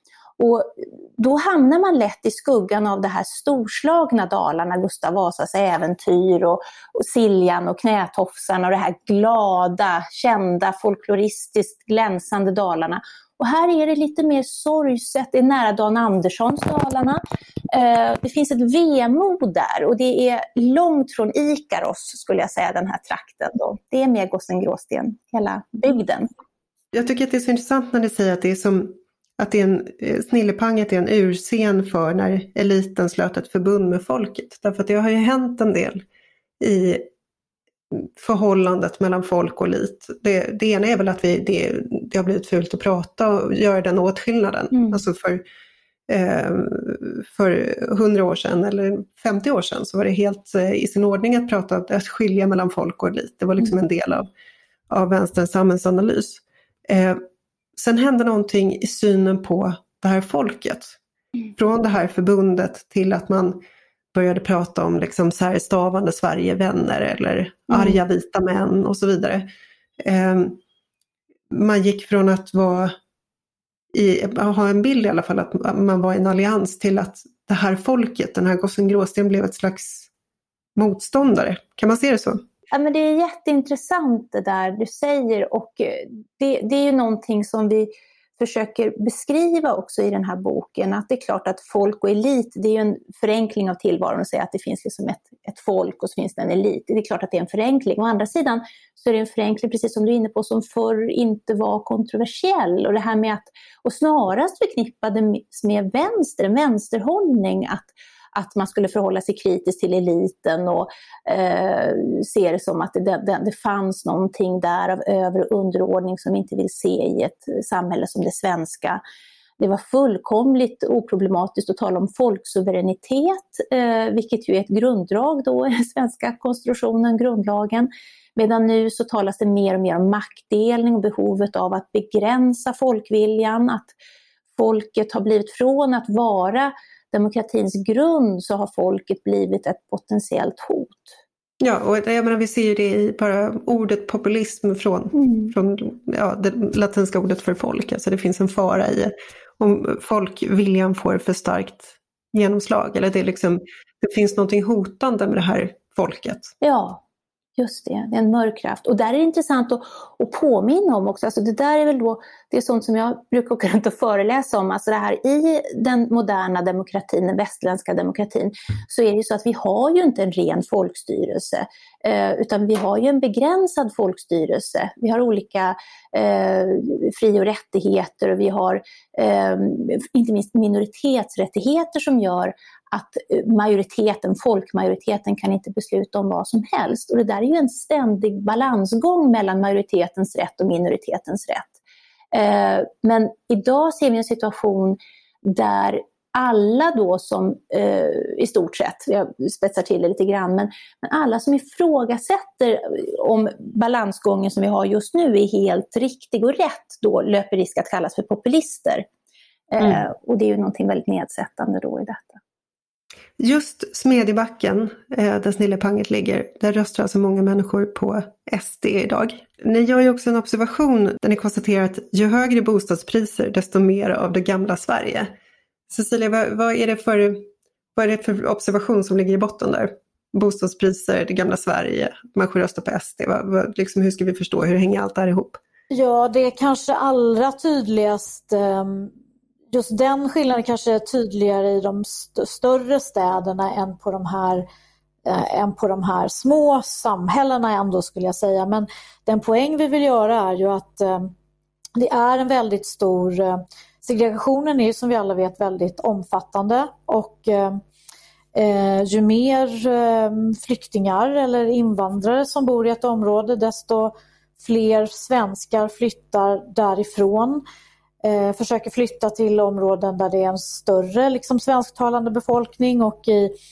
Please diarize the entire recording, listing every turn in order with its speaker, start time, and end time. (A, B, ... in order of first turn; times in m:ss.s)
0:00.4-0:17.2 A
0:17.7-0:26.3 A
0:26.9-0:36.0 B
0:36.6-0:37.1 B
0:37.9-0:45.4 B
0:44.7-0:45.0 A
0:46.1-0:54.3 B
0:54.9-0:57.2 B
0:57.8-1:01.0 B
1:01.5-1:03.6 B
1:04.1-1:09.5 B
1:07.7-1:08.0 A
1:10.0-1:10.6 B
1:11.5-1:13.0 B
1:13.9-1:20.1 B
1:20.8-1:22.4 B
1:22.7-1:59.0 A
1:59.6-2:13.9 A
2:14.6-2:21.2 A
2:21.6-2:36.5 B
2:25.1-2:25.5 A
2:36.6-2:37.0 A
2:37.6-3:11.7 A
3:12.3-3:29.0 A
3:29.7-3:32.4 A
3:33.4-3:45.3 B
3:45.9-3:55.6 B
3:55.9-3:59.1 C
3:59.7-4:04.6 C
4:05.2-4:11.3 C
4:12.0-4:17.8 C
4:18.5-4:27.6 C
4:28.2-4:33.5 C